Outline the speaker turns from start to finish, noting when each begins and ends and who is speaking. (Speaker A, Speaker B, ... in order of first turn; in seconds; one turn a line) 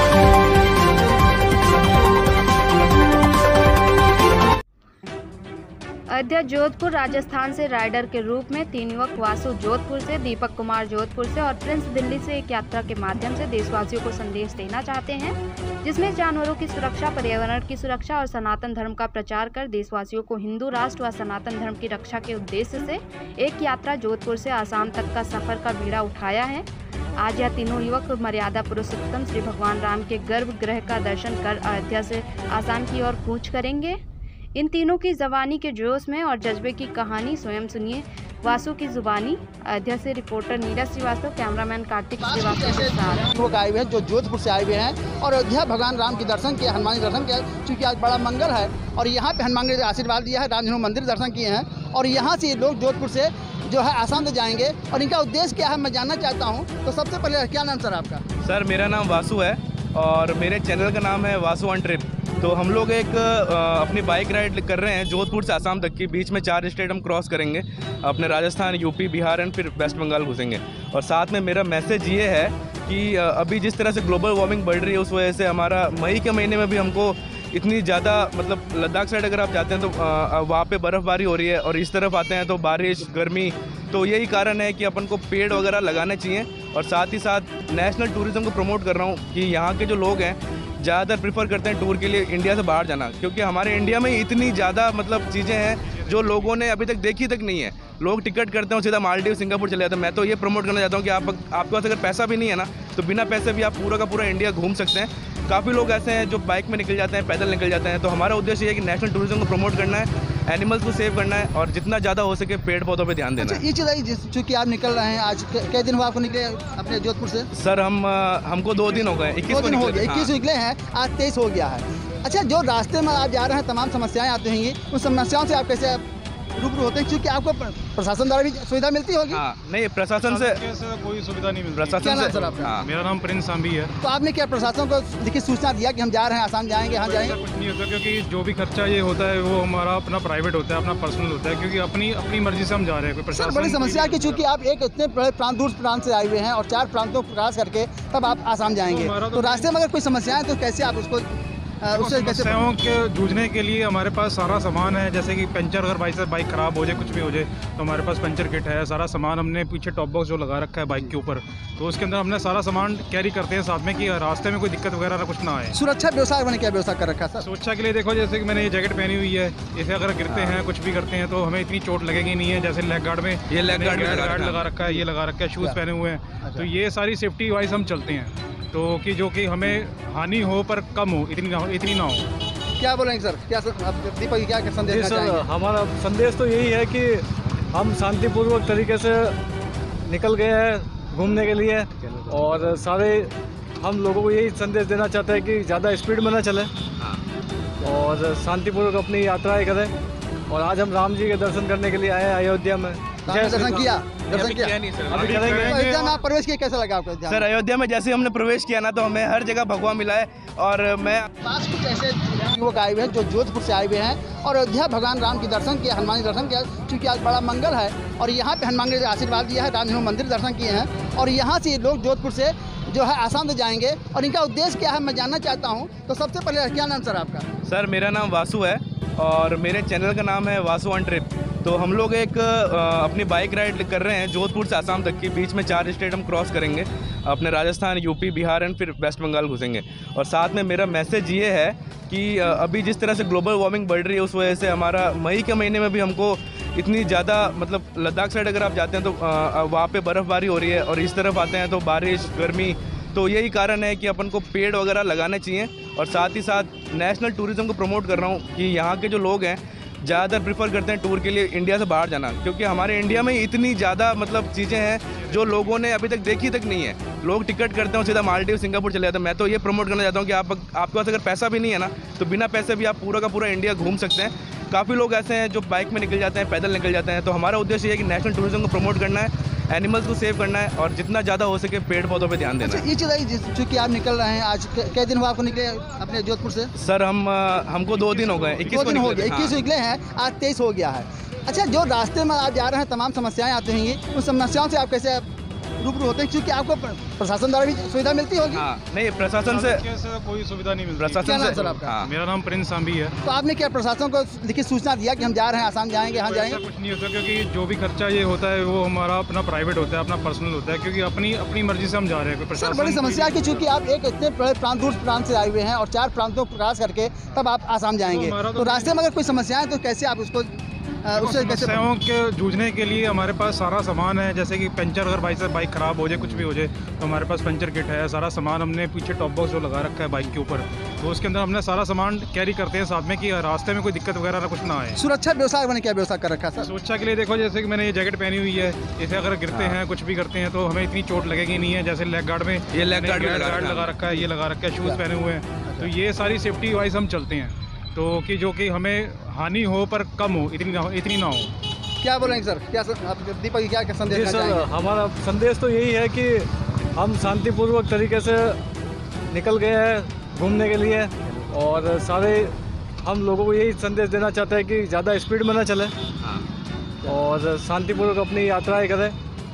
Speaker A: 6.1-26.7
Speaker A: 27.2-34.0
Speaker A: 34.6-43.3
Speaker B: 42.2-58.2
Speaker C: 58.4-113.6
Speaker B: 113.4-117.5
Speaker C: 117.5-120.3
Speaker B: 119.4-126.0
Speaker B: 126.6-129.4
Speaker C: 129.3-130.6
Speaker D: 130.2-133.9
Speaker C: 131.8-132.9
Speaker B: 132.0-132.8
Speaker B: 134.0-137.4
Speaker D: 137.0-144.3
Speaker B: 143.3-151.3
Speaker D: 148.9-149.7
Speaker B: 151.8-152.7
Speaker D: 152.0-165.7
Speaker B: 165.7-167.5
Speaker D: 167.5-182.2
Speaker C: 170.3-170.6
Speaker C: 173.5-174.7
Speaker B: 176.4-176.7
Speaker B: 182.8-185.5
Speaker E: 184.8-189.4
Speaker E: 190.1-196.7
Speaker E: 197.8-199.9
Speaker E: 200.5-203.9
Speaker B: 203.2-204.8
Speaker C: 204.3-206.1
Speaker E: 205.1-205.9
Speaker D: 205.2-205.7
Speaker B: 205.5-207.5
Speaker C: 207.3-211.3
Speaker B: 211.4-227.5
Speaker C: 227.7-282.9
Speaker B: 282.6-286.7
Speaker C: 286.8-289.6
Speaker B: 288.7-295.2
Speaker B: 295.8-298.7
Speaker C: 298.5-299.8
Speaker D: 299.5-303.1
Speaker C: 301.0-302.1
Speaker B: 301.2-301.9
Speaker B: 303.2-306.6
Speaker D: 306.3-313.5
Speaker B: 312.5-321.9
Speaker D: 318.1-318.9
Speaker D: 321.2-334.9
Speaker B: 334.9-336.7
Speaker D: 336.7-351.4
Speaker C: 339.5-339.8
Speaker C: 342.7-343.9
Speaker B: 352.0-354.7
Speaker E: 354.1-358.6
Speaker E: 359.3-365.9
Speaker C: 366.2-366.5
Speaker E: 367.1-369.2